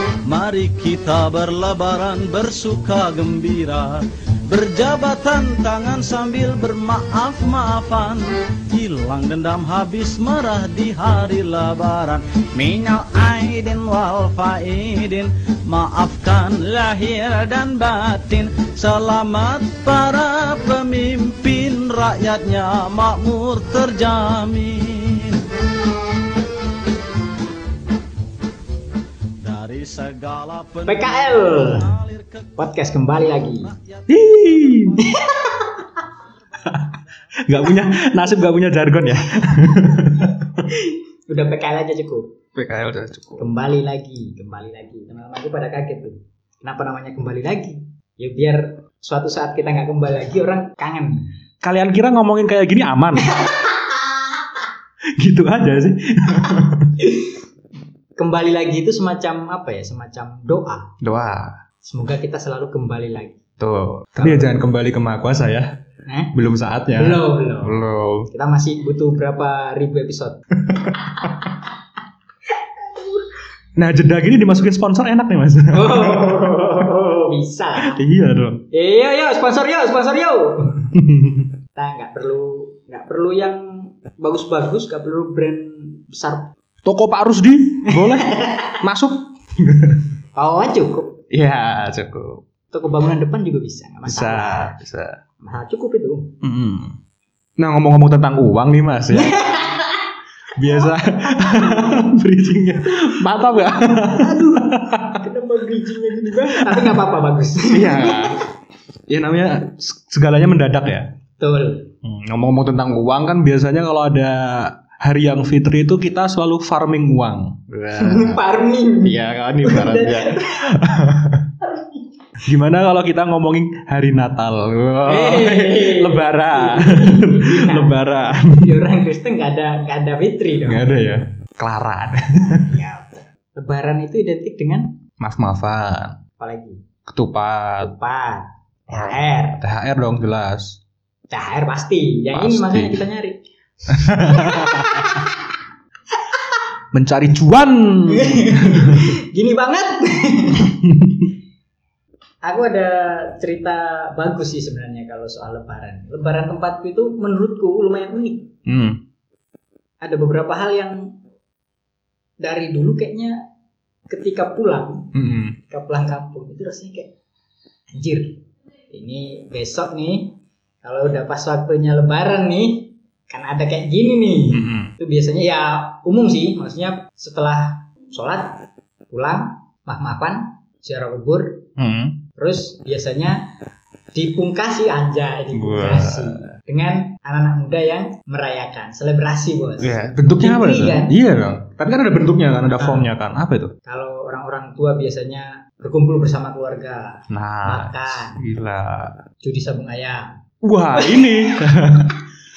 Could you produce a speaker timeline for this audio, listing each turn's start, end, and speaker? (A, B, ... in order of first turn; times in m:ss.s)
0:00.2-0:25.4 A
0:29.4-0:32.7 A
0:30.9-0:31.9 B
0:32.6-0:33.7 B
0:33.3-0:35.2 A
0:34.1-0:35.1 C
0:35.0-0:36.0 B
0:36.6-0:40.7 C
0:40.6-0:42.3 B
0:42.6-0:43.5 C
0:43.4-0:51.3 B
0:51.6-0:53.4 C
0:53.2-0:54.1 B
0:55.2-0:57.0 C
0:58.2-1:00.9 B
1:01.0-1:01.6 C
1:01.8-1:03.4 B
1:03.6-1:05.7 C
1:04.2-1:04.6 B
1:06.1-1:06.4 B
1:06.3-1:08.3 C
1:06.9-1:10.4 B
1:10.6-1:11.5 C
1:11.1-1:11.6 B
1:12.8-1:13.2 B
1:13.8-1:16.7 C
1:15.7-1:18.0 B
1:17.8-1:18.6 C
1:18.7-1:20.9 B
1:20.9-1:21.5 C
1:21.8-1:26.5 B
1:26.8-1:30.1 C
1:27.8-1:28.8 B
1:30.4-1:31.2 B
1:31.3-1:32.4 C
1:32.7-1:34.8 B
1:34.1-1:35.2 C
1:35.4-1:36.4 B
1:36.4-1:37.0 C
1:37.6-1:39.6 C
1:39.1-1:40.1 B
1:40.6-1:45.2 C
1:40.6-1:42.0 B
1:43.3-1:48.4 B
1:46.2-1:47.0 C
1:47.7-1:48.4 C
1:49.1-1:51.1 C
1:51.4-1:51.9 B
1:52.0-1:58.4 C
1:58.0-2:01.0 B
1:59.0-2:01.5 C
2:01.6-2:02.0 B
2:02.4-2:08.8 C
2:05.1-2:10.9 B
2:10.7-2:12.8 C
2:12.6-2:15.0 B
2:15.2-2:16.2 C
2:16.4-2:16.8 B
2:17.1-2:17.9 C
2:17.8-2:19.6 B
2:18.9-2:20.8 C
2:21.3-2:23.4 B
2:22.3-2:23.0 C
2:23.9-2:25.3 C
2:24.0-2:25.5 B
2:26.2-2:26.6 B
2:26.9-2:29.2 C
2:28.1-2:30.8 B
2:30.8-2:31.3 C
2:32.4-2:38.5 B
2:38.7-2:39.0 C
2:40.0-2:41.2 B
2:42.4-2:43.4 B
2:44.1-2:45.1 B
2:45.1-2:45.6 C
2:45.7-2:47.1 B
2:47.9-3:01.6 B
2:54.5-2:54.9 C
3:01.8-3:02.2 C
3:02.4-3:03.5 B
3:04.1-3:11.2 B
3:05.5-3:06.5 C
3:09.8-3:13.7 C
3:12.8-3:13.1 B
3:13.9-3:18.4 B
3:17.3-3:19.2 C
3:19.4-3:20.3 B
3:20.6-3:22.1 C
3:20.9-3:21.5 B